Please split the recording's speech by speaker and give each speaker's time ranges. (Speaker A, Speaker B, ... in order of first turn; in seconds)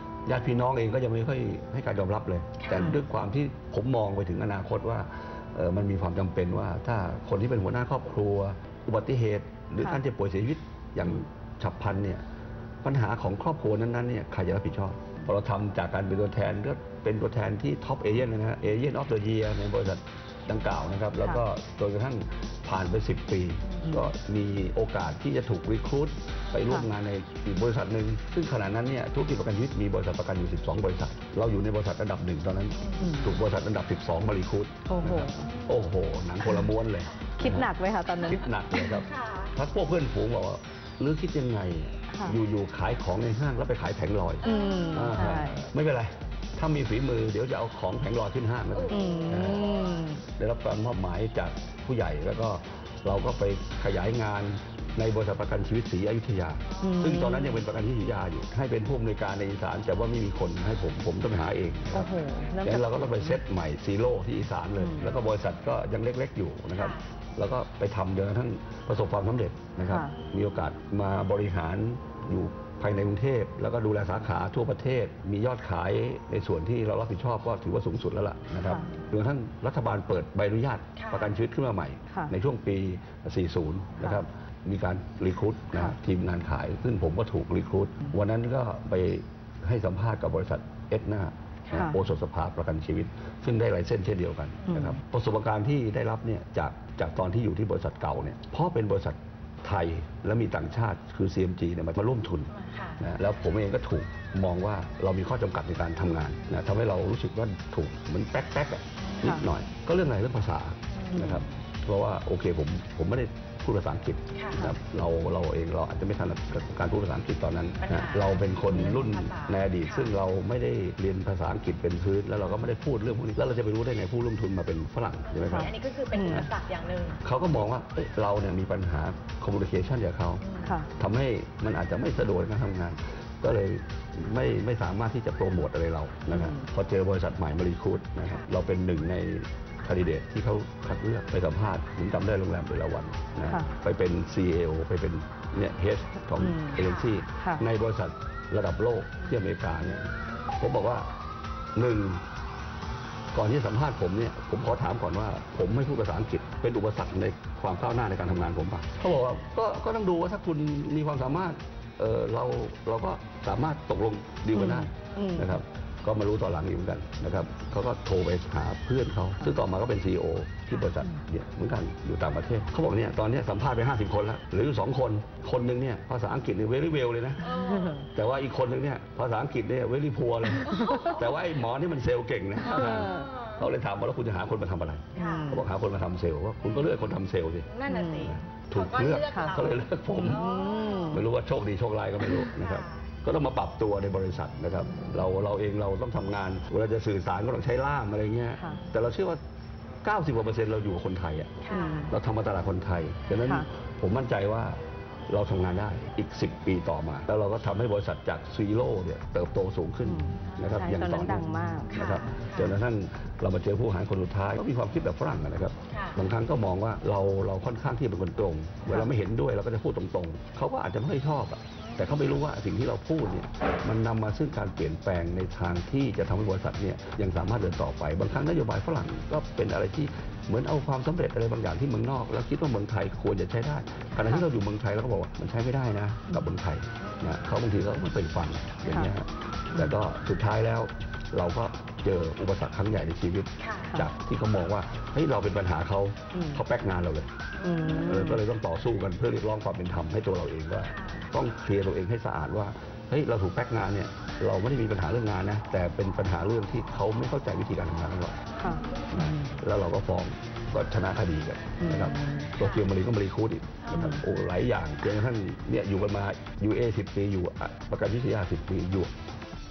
Speaker A: 0.3-12.2, 12.8-37.7, 38.2-49.8, 50.4-125.7, 127.2-130.4, 131.0-151.1, 151.8-152.2, 153.3-177.4, 178.1-190.4, 191.1-199.4, 200.0-247.3, 247.9-258.4, 259.1-269.1
Speaker B: 2.6-2.9, 32.8-33.2, 35.4-35.8, 37.1-37.6, 39.0-39.5, 44.4-45.1, 48.7-50.1, 56.7-57.2, 66.8-67.0, 81.0-81.3, 102.5-103.0, 109.0-109.4, 110.9-111.3, 114.3-114.7, 117.8-120.1, 125.3-127.2, 130.4-130.8, 146.8-147.1, 177.4-178.0, 180.7-181.3, 182.6-183.7, 185.2-185.5, 187.7-191.2, 192.6-193.1, 201.6-202.1, 211.9-212.8, 215.9-216.2, 237.0-237.4, 243.6-244.0, 247.6-248.0, 250.9-251.3, 263.9-264.1
Speaker C: 33.0-33.4, 34.9-35.5, 37.4-38.8, 42.1-42.4, 44.4-45.6, 48.9-50.2, 56.8-57.6, 61.9-63.4, 64.8-65.1, 69.8-70.1, 94.7-95.0, 111.1-111.4, 125.5-126.5, 130.6-130.9, 136.3-136.7, 143.5-143.7, 146.4-146.8, 147.4-147.6, 164.5-165.5, 177.5-178.1, 180.7-181.1, 182.7-183.3, 185.2-185.7, 187.9-188.3, 189.2-189.6, 190.1-191.2, 201.7-202.1, 210.1-211.9, 246.3-246.6, 247.6-248.4, 258.6-259.5, 261.8-262.6, 263.9-264.2